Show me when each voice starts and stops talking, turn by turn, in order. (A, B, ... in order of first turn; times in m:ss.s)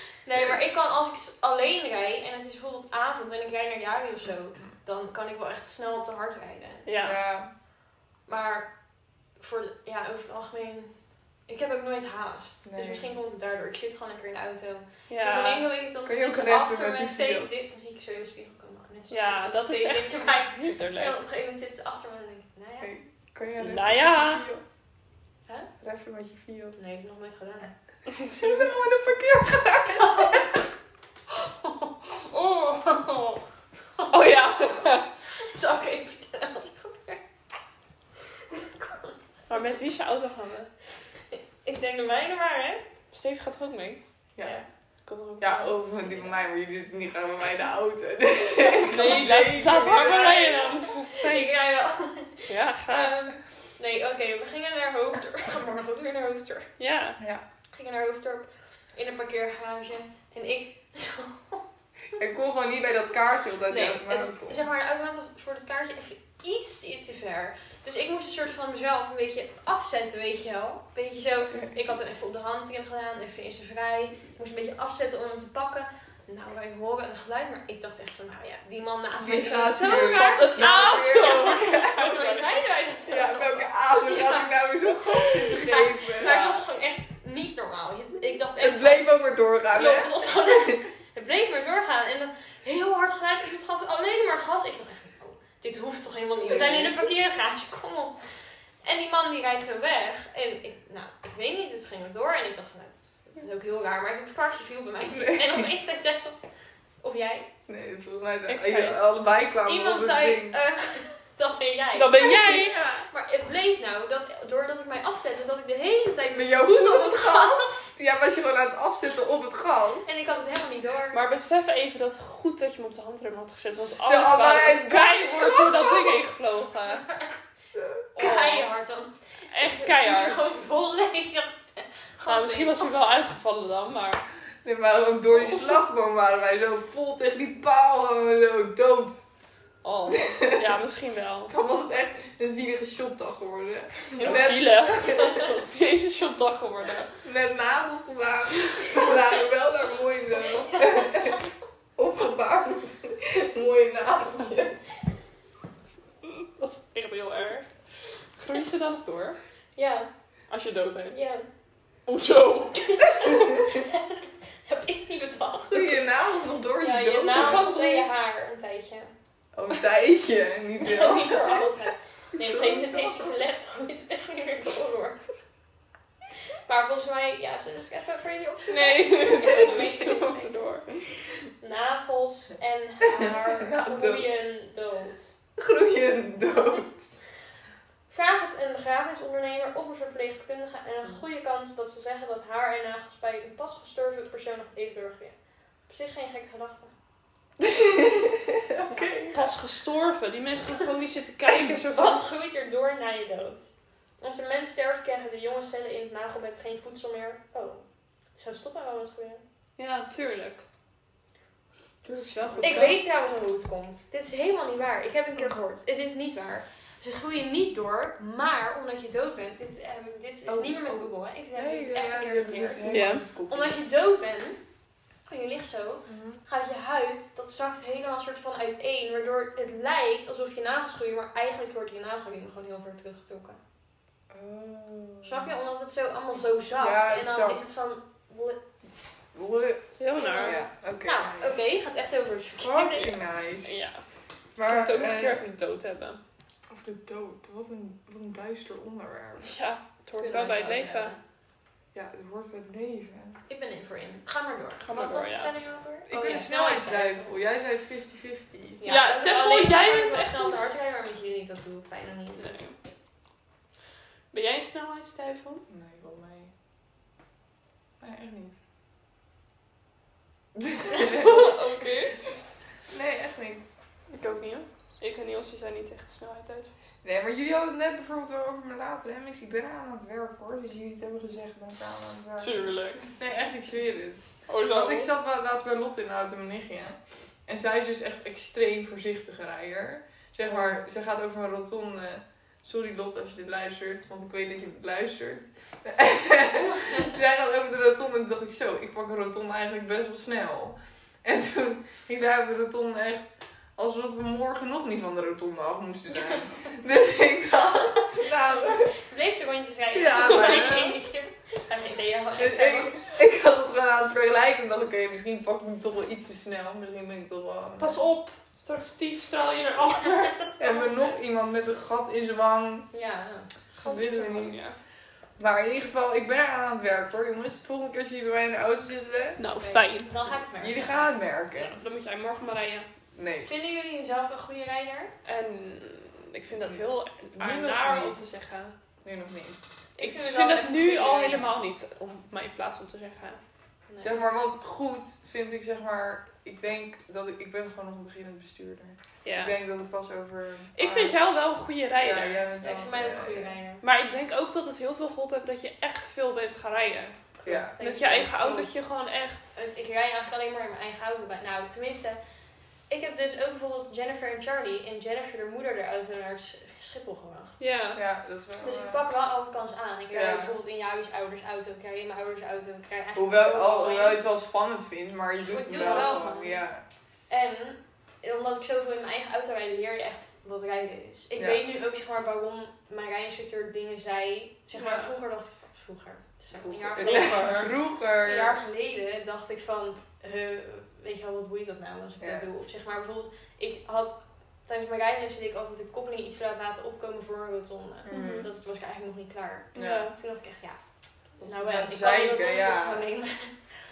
0:00.2-0:06.9 A
0:06.8-0:07.2 B
0:07.0-0:07.5 C
0:08.3-0:08.7 A
0:09.4-0:10.9 A
0:11.5-0:22.9 A
0:12.6-0:13.0 C
0:15.1-0:15.7 B
0:16.0-0:17.5 C
0:19.1-0:21.2 B
0:22.8-0:24.7 C
0:23.6-0:24.4 B
0:25.8-0:26.8 C
0:26.8-0:27.7 A
0:28.1-0:29.0 B
0:28.2-0:30.6 C
0:29.9-0:30.5 A
0:31.3-0:33.4 A
0:34.0-0:37.2 A
0:34.1-0:35.1 B
0:38.5-0:39.2 A
0:39.5-0:40.7 B
0:41.3-0:42.8 A
0:43.1-0:44.0 B
0:44.4-0:44.6 C
0:44.4-0:44.6 A
0:45.0-0:45.8 B
0:45.4-0:50.6 C
0:46.0-0:46.4 A
0:48.8-0:51.5 B
0:48.9-0:53.1 A
0:52.5-0:53.4 B
0:53.8-0:56.7 A
0:56.8-0:57.2 B
0:57.2-0:57.4 C
0:57.7-1:01.6 A
1:02.2-1:04.6 C
1:03.7-1:29.1 A
1:19.2-1:22.2 C
1:19.8-1:22.6 B
1:23.1-1:26.6 C
1:28.6-1:30.8 C
1:29.7-1:38.2 A
1:36.5-1:37.0 C
1:38.8-1:46.4 A
1:45.1-1:45.7 C
1:47.0-1:47.5 A
1:47.7-1:50.6 C
1:48.5-1:49.0 B
1:49.6-1:57.9 A
1:51.9-1:53.0 B
1:56.3-2:00.2 C
2:00.0-2:01.2 A
2:01.1-2:07.1 B
2:03.8-2:06.0 C
2:06.8-2:07.4 A
2:07.7-2:08.1 C
2:08.1-2:12.9 A
2:08.2-2:08.7 B
2:09.5-2:10.4 B
2:12.2-2:14.2 B
2:14.6-2:19.2 C
2:19.8-2:21.5 B
2:20.1-2:20.7 C
2:21.5-2:25.4 C
2:24.1-2:25.5 A
2:24.2-2:27.1 B
2:27.2-2:31.4 C
2:30.6-2:31.4 A
2:32.0-2:34.9 C
2:36.2-2:37.7 B
2:38.4-2:39.4 B
2:39.8-2:40.1 A
2:40.5-2:41.2 B
2:41.1-2:41.4 A
2:42.0-2:43.5 B
2:42.7-2:46.0 A
2:45.7-2:47.7 C
2:46.8-2:49.1 A
2:47.3-2:48.2 B
2:49.5-2:51.7 C
2:50.8-2:55.3 A
2:52.4-2:53.4 C
2:56.7-3:00.6 A
2:58.7-3:01.2 B
3:01.6-3:05.3 A
3:03.1-3:04.3 C
3:05.6-3:07.2 C
3:08.1-3:15.4 A
3:15.9-3:16.9 A
3:17.6-3:19.4 C
3:19.0-3:22.3 B
3:21.9-3:23.7 A
3:24.2-3:27.8 A
3:28.4-3:29.4 A
3:29.8-3:30.6 B
3:32.0-3:33.0 C
3:32.2-3:33.0 B
3:32.6-3:44.6 A
3:40.5-3:43.8 C
3:42.8-3:43.2 B
3:45.3-3:53.6 A
3:46.0-3:46.4 C
3:54.3-3:55.5 C
3:55.2-3:58.6 A
3:56.8-3:57.7 C
3:59.3-3:59.9 C
4:00.0-4:00.6 B
4:00.1-4:03.2 A
4:00.4-4:01.6 C
4:02.6-4:03.9 C
4:03.6-4:04.0 B
4:04.6-4:05.4 C
4:04.6-4:06.2 B
4:06.7-4:09.5 C
4:09.4-4:11.1 B
4:10.2-4:11.2 A
4:11.9-4:13.4 C
4:13.5-4:17.3 A
4:14.8-4:15.5 B
4:16.1-4:18.8 C
4:18.8-4:22.6 A
4:18.8-4:20.6 B
4:22.3-4:22.8 B
4:24.3-4:25.6 B
4:25.7-4:26.5 C
4:28.0-4:28.6 C
4:30.5-4:31.4 C
4:30.9-4:31.9 A
4:31.0-4:32.2 B
4:32.9-4:33.7 C
4:34.1-4:36.7 B
4:37.0-5:08.9 C
4:41.9-4:43.0 B
4:44.5-4:45.1 B
4:50.5-4:50.7 B
5:09.0-5:13.1 A
5:09.9-5:11.0 C
5:10.3-5:10.6 B
5:12.4-5:18.0 C
5:17.8-5:20.4 B
5:20.4-5:21.0 A
5:20.6-5:22.9 C
5:22.9-5:24.0 A
5:23.8-5:24.6 C
5:23.8-5:24.8 B
5:25.4-5:29.4 C
5:29.4-5:30.1 B
5:29.6-5:31.1 A
5:30.6-5:31.8 C
5:31.5-5:32.9 B
5:33.1-5:33.5 C
5:33.4-5:35.1 A
5:35.2-5:38.7 B
5:36.5-5:38.3 C
5:39.0-5:39.6 C
5:40.0-5:41.5 A
5:40.0-5:43.4 B
5:43.9-5:44.2 A
5:44.0-5:51.2 C
5:49.2-5:49.5 B
5:50.8-5:52.4 B
5:52.0-5:53.5 C
5:52.6-5:53.8 A
5:53.8-5:57.2 B
5:57.4-5:58.8 A
5:57.4-5:57.7 C
5:57.8-5:59.6 B
5:59.5-6:02.2 A
6:02.9-6:07.6 A
6:07.6-6:08.0 B
6:07.9-6:09.0 C
6:08.6-6:14.2 A
6:10.1-6:10.5 C
6:13.1-6:16.8 C
6:15.5-6:16.7 A
6:15.7-6:16.2 B
6:17.3-6:40.8 A
6:21.4-6:21.7 C
6:24.8-6:25.1 B
6:26.6-6:28.6 C
6:26.9-6:27.7 B
6:32.2-6:32.5 C
6:38.1-6:38.5 C
6:38.1-6:38.5 B
6:39.7-6:40.1 C
6:39.7-6:40.1 B
6:41.4-6:43.0 C
6:41.4-6:43.6 A